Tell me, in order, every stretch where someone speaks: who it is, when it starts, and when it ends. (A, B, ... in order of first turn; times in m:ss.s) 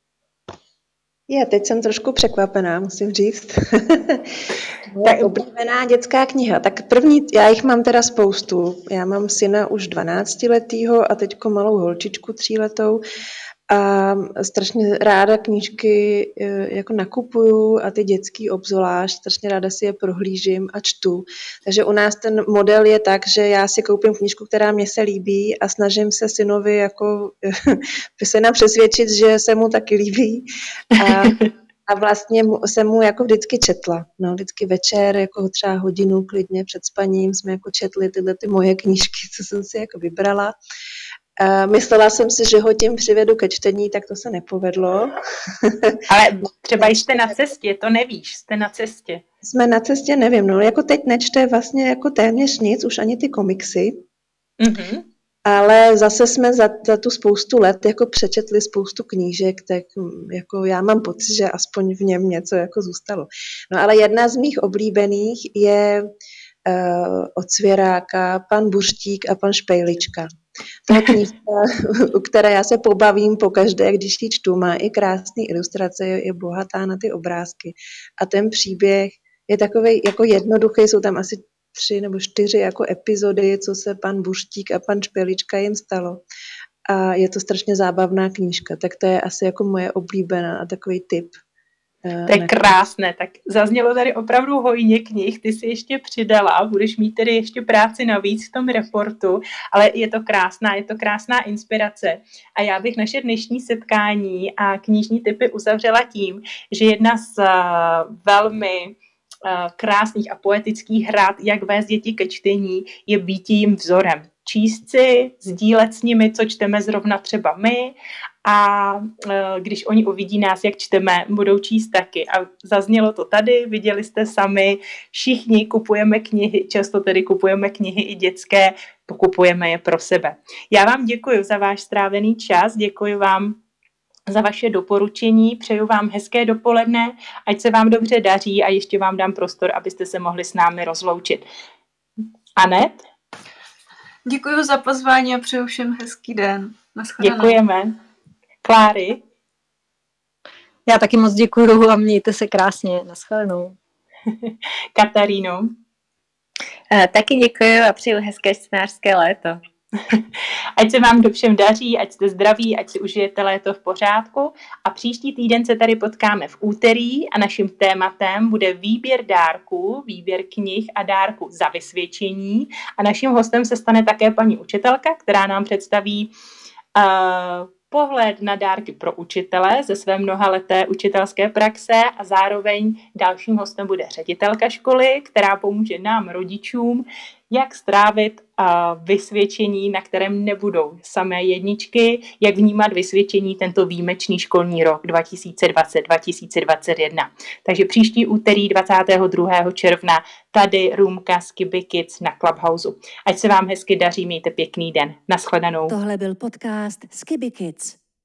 0:01.3-0:04.2 A
0:04.9-0:13.0 A
0:05.0-0:05.4 B
0:13.7-0:30.4 A
0:31.0-0:40.6 A
0:41.4-0:45.1 A
0:45.7-0:46.0 A
0:46.1-0:49.2 B
0:46.8-0:47.3 A
0:49.5-0:54.0 A
0:54.6-0:55.0 B
0:55.5-1:06.1 A
1:06.6-1:10.3 A
1:10.9-1:26.2 A
1:26.9-1:31.4 A
1:32.0-1:32.8 A
1:32.3-1:57.9 B
1:58.4-2:13.6 B
2:14.3-2:21.4 B
2:22.6-2:23.0 B
2:24.3-2:27.6 C
2:27.2-2:28.0 B
2:28.6-2:29.2 B
2:30.9-2:33.8 D
2:34.4-2:35.7 B
2:36.9-2:39.6 E
2:40.8-2:56.3 B
2:57.0-3:25.9 B
3:25.9-3:28.0 F